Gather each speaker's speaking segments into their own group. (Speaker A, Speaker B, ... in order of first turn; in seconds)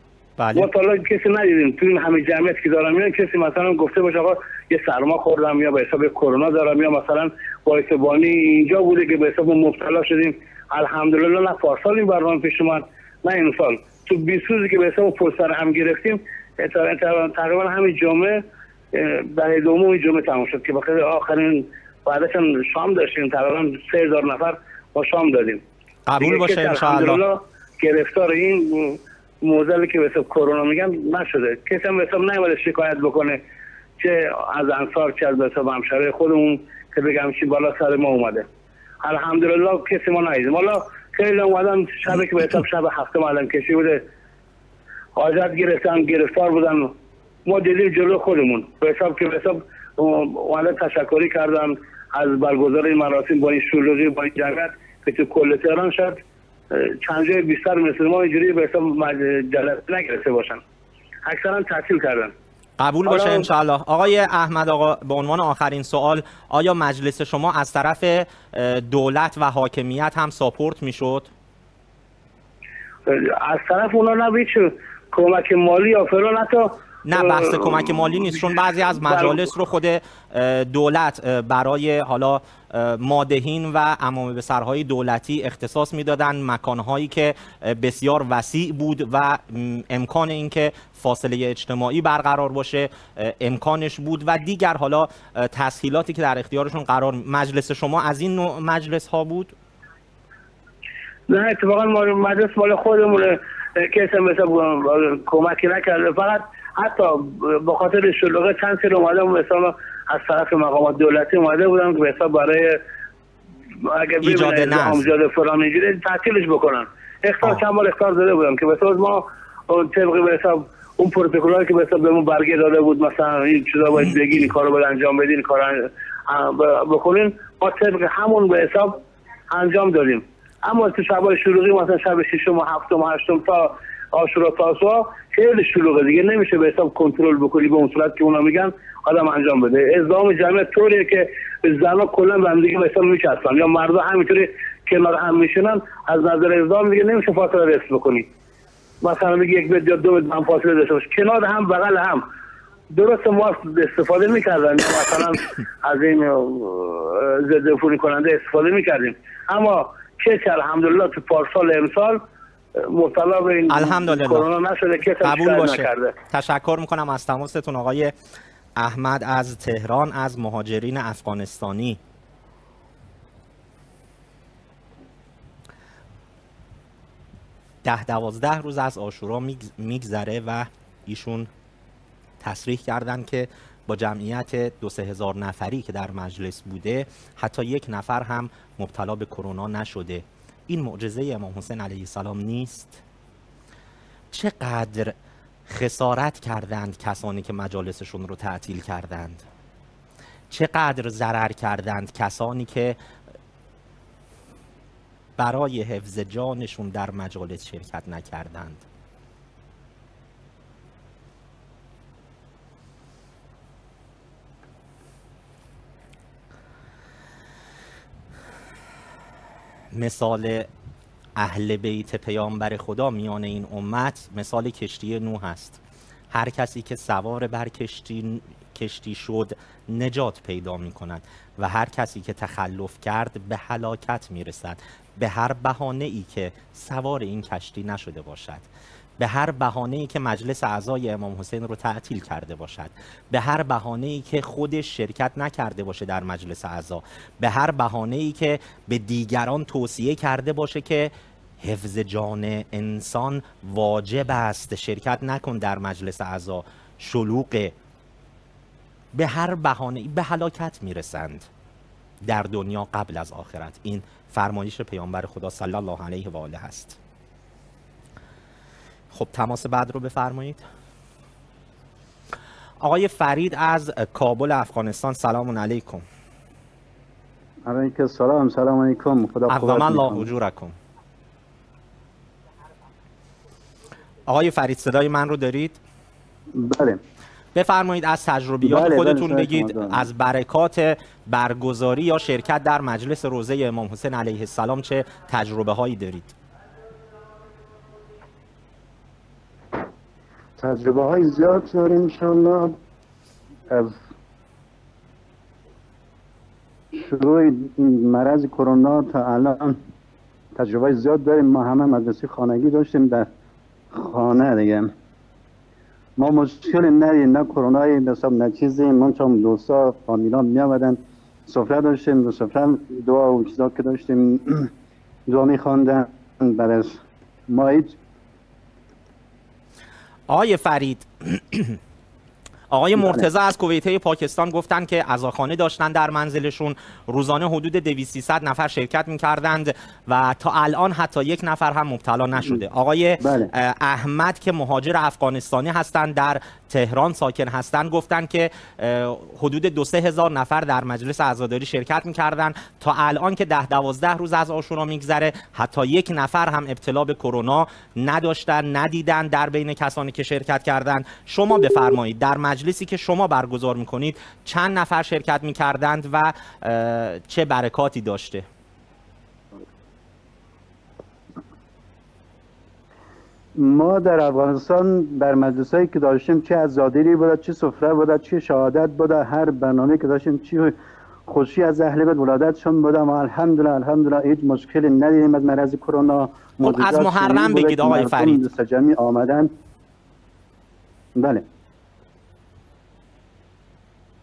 Speaker A: 0.4-0.7, 26.1-27.2, 62.8-71.3, 77.0-99.5, 114.2-115.1, 163.7-164.5, 165.2-168.1, 168.8-172.0, 177.8-181.5, 182.4-193.0, 194.3-195.1, 195.7-199.4, 200.5-203.0, 205.4-208.8, 219.9-220.7, 221.3-225.8, 226.3-238.7, 239.2-257.7, 259.1-261.5, 262.2-267.0, 269.1-270.6, 272.8-276.0, 279.5-280.8, 284.3-285.8, 287.5-296.4, 330.3-331.8, 332.7-368.4, 386.6-388.4
Speaker B: 0.5-18.4, 18.9-25.6, 26.2-33.4, 34.0-38.5, 39.0-44.0, 45.1-46.9, 47.4-56.2, 56.7-60.6, 61.2-62.3, 63.0-63.5, 73.0-79.5, 101.3-112.8, 113.8-148.3, 149.0-152.2, 152.9-162.2, 162.8-166.2
Speaker C: 277.7-280.3, 286.5-287.0, 288.6-290.1, 300.6-302.8, 303.7-304.0, 306.9-309.8, 310.6-313.3, 313.9-314.9, 316.2-324.7, 325.3-327.9, 333.0-333.2, 343.2-343.5, 373.6-380.7, 381.3-389.5, 391.2-391.4